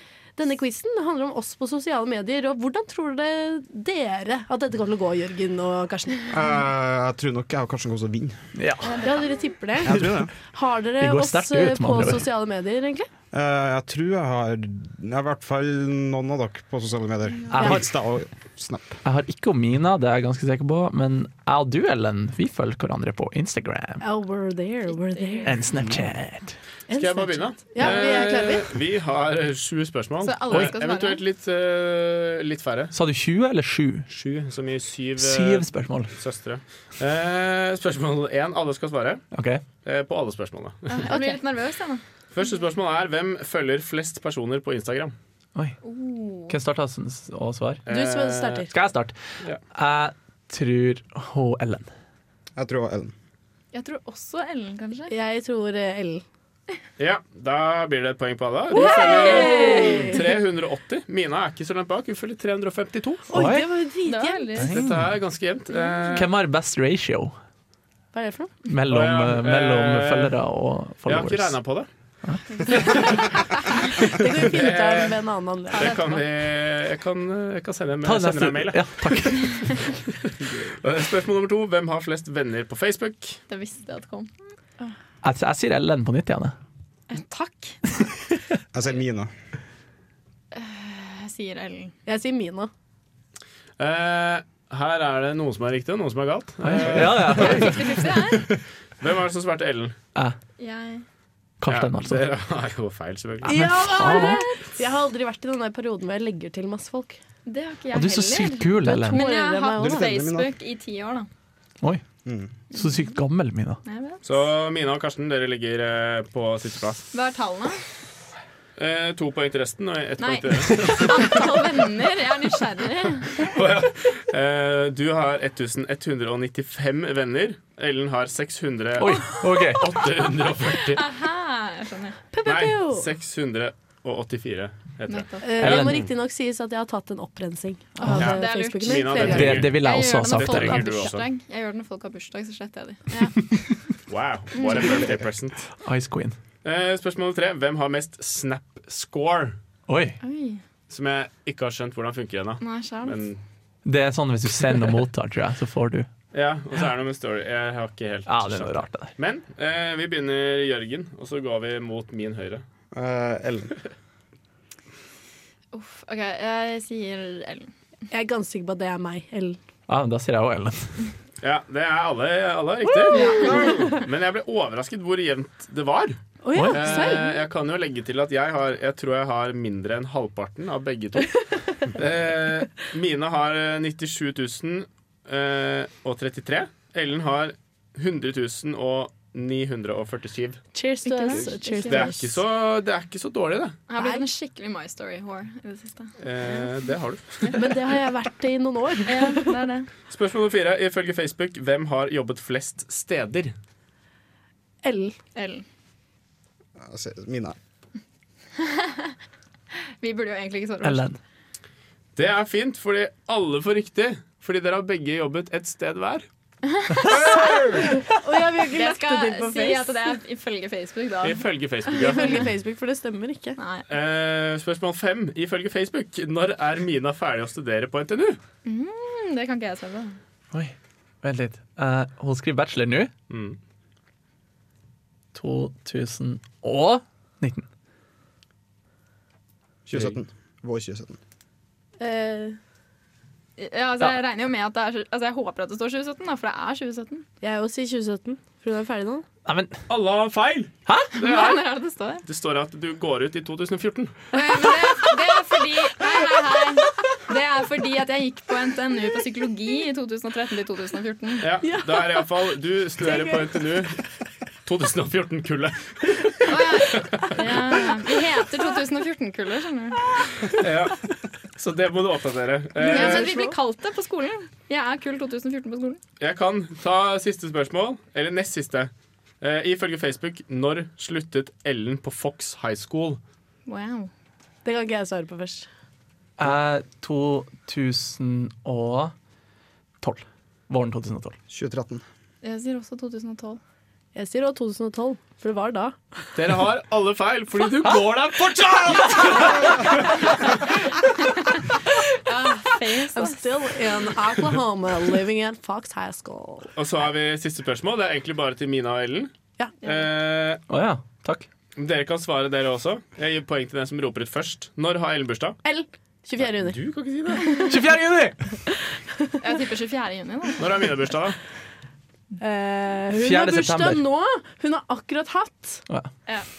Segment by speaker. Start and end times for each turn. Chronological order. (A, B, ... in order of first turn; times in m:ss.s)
0:00.4-0:06.3 A
0:06.3-0:08.4 B
0:08.6-0:09.0 C
0:08.8-0:09.4 D
0:09.0-0:13.1 A
0:09.8-0:10.3 C
0:09.8-0:10.3 B
0:11.0-0:12.3 C
0:13.3-0:19.0 B
0:17.5-0:17.9 C
0:17.6-0:17.8 A
0:19.0-0:24.0 C
0:24.0-0:25.6 A
0:25.0-0:25.7 D
0:25.4-0:26.6 C
0:26.9-0:28.7 A
0:27.0-0:33.0 E
0:30.2-0:31.2 D
0:30.5-0:30.8 C
0:32.9-0:34.1 C
0:34.1-0:39.2 E
0:35.2-0:36.2 C
0:39.3-0:39.6 C
0:39.8-0:41.1 E
0:40.9-0:42.0 D
0:41.1-0:41.4 A
0:42.3-0:45.1 E
0:45.8-0:46.5 D
0:46.5-0:47.8 C
0:47.9-0:48.6 E
0:47.9-0:48.7 A
0:48.7-0:49.2 C
0:49.7-0:51.9 C
0:52.6-0:53.1 B
0:53.7-0:55.1 D
0:55.1-0:56.2 A
0:57.0-1:03.2 E
0:58.7-1:00.2 A
0:58.8-1:00.2 D
1:03.3-1:04.6 A
1:03.3-1:03.7 C
1:04.0-1:04.8 D
1:04.6-1:05.1 C
1:04.7-1:06.3 E
1:05.7-1:06.2 D
1:06.2-1:07.4 C
1:08.1-1:08.5 A
1:08.6-1:11.6 C
1:08.9-1:10.4 E
1:11.0-1:11.9 E
1:12.5-1:13.2 D
1:12.7-1:13.2 E
1:14.0-1:16.2 A
1:14.3-1:15.2 E
1:15.8-1:19.4 E
1:15.8-1:16.2 D
1:18.0-1:19.7 C
1:20.2-1:23.4 E
1:23.5-1:24.9 D
1:25.2-1:26.6 C
1:27.1-1:27.8 D
1:28.7-1:29.3 B
1:30.5-1:32.0 D
1:32.1-1:32.7 A
1:33.8-1:37.8 E
1:36.6-1:37.9 C
1:37.2-1:38.5 D
1:39.0-1:40.0 E
1:40.6-1:41.0 D
1:41.6-1:42.3 C
1:41.7-1:43.6 E
1:43.4-1:47.2 A
1:43.4-1:44.4 C
1:44.0-1:44.5 D
1:47.5-1:51.3 D
1:47.9-1:49.2 C
1:48.8-1:50.0 A
1:49.8-1:50.5 B
1:52.2-1:52.5 B
1:52.7-1:53.8 C
1:52.7-1:53.0 D
1:53.8-1:54.3 D
1:54.2-1:57.1 E
1:57.1-1:57.8 D
1:58.8-2:01.5 E
2:00.2-2:03.4 D
2:03.4-2:11.0 E
2:09.0-2:09.9 C
2:10.9-2:12.2 D
2:12.3-2:13.1 A
2:12.4-2:16.0 E
2:15.1-2:15.9 D
2:15.4-2:19.6 A
2:15.6-2:16.0 C
2:18.0-2:18.4 C
2:18.0-2:23.5 D
2:18.2-2:21.2 E
2:19.2-2:21.1 C
2:23.5-2:23.8 C
2:24.1-2:25.7 E
2:24.6-2:25.1 D
2:24.6-2:25.2 B
2:25.8-2:26.4 C
2:26.6-2:29.6 E
2:29.9-2:30.2 C
2:30.2-2:30.6 D
2:30.9-2:33.4 E
2:32.6-2:33.3 D
2:33.8-2:36.1 C
2:36.3-2:42.6 E
2:38.3-2:39.1 C
2:42.9-2:43.8 B
2:45.7-2:47.7 D
2:48.1-2:49.6 A
2:49.9-2:51.0 C
2:51.4-3:10.6 E
2:53.1-2:54.0 A
2:53.3-2:53.6 D
2:56.4-2:57.4 A
2:56.5-2:56.8 C
3:10.7-3:12.4 A
3:11.0-3:12.1 D
3:11.3-3:13.8 E
3:13.9-3:16.9 D
3:14.0-3:14.3 A
3:16.2-3:17.8 E
3:17.5-3:19.5 A
3:19.0-3:19.9 D
3:20.1-3:23.5 E
3:24.8-3:25.2 A
3:25.4-3:25.6 D
3:26.8-3:27.6 B
3:28.6-3:29.1 D
3:30.0-3:31.2 D
3:30.8-3:31.2 C
3:32.2-3:36.3 E
3:36.7-3:37.8 D
3:37.6-3:40.2 A
3:38.7-3:42.4 D
3:41.2-3:42.4 E
3:42.0-3:43.6 A
3:43.6-3:43.9 D
3:43.9-3:48.4 E
3:48.6-3:50.2 D
3:50.5-3:53.1 C
3:53.3-3:53.6 E
3:55.3-3:57.7 C
3:59.9-4:01.2 B
4:02.0-4:02.6 A
4:03.6-4:07.2 D
4:07.4-4:09.2 A
4:09.4-4:09.8 C
4:09.9-4:11.6 E
4:10.9-4:11.1 C
4:11.1-4:12.2 D
4:12.3-4:14.3 E
4:14.3-4:21.5 D
4:21.4-4:24.0 E
4:21.6-4:22.3 A
4:23.1-4:23.6 A
4:24.6-4:27.4 E
4:26.4-4:30.1 D
4:30.4-4:33.3 E
4:32.8-4:33.5 A
4:32.8-4:36.0 D
4:36.2-4:38.9 E
4:39.4-4:43.2 E
4:43.7-4:44.1 D
4:44.6-4:45.7 A
4:46.4-4:49.1 C
4:50.0-4:51.4 C
4:51.5-4:52.0 B
4:52.4-4:53.6 D
4:54.2-4:56.0 A
4:56.4-5:00.7 E
5:01.4-5:03.4 D
5:03.1-5:06.7 A
5:06.8-5:09.3 E
5:09.8-5:10.6 E
5:10.7-5:11.5 C
5:11.8-5:15.6 E
5:15.6-5:16.8 A
5:16.4-5:17.5 E
5:17.7-5:18.6 C
5:19.4-5:20.8 D
5:20.6-5:21.4 E
5:22.4-5:25.8 A
5:23.2-5:24.0 C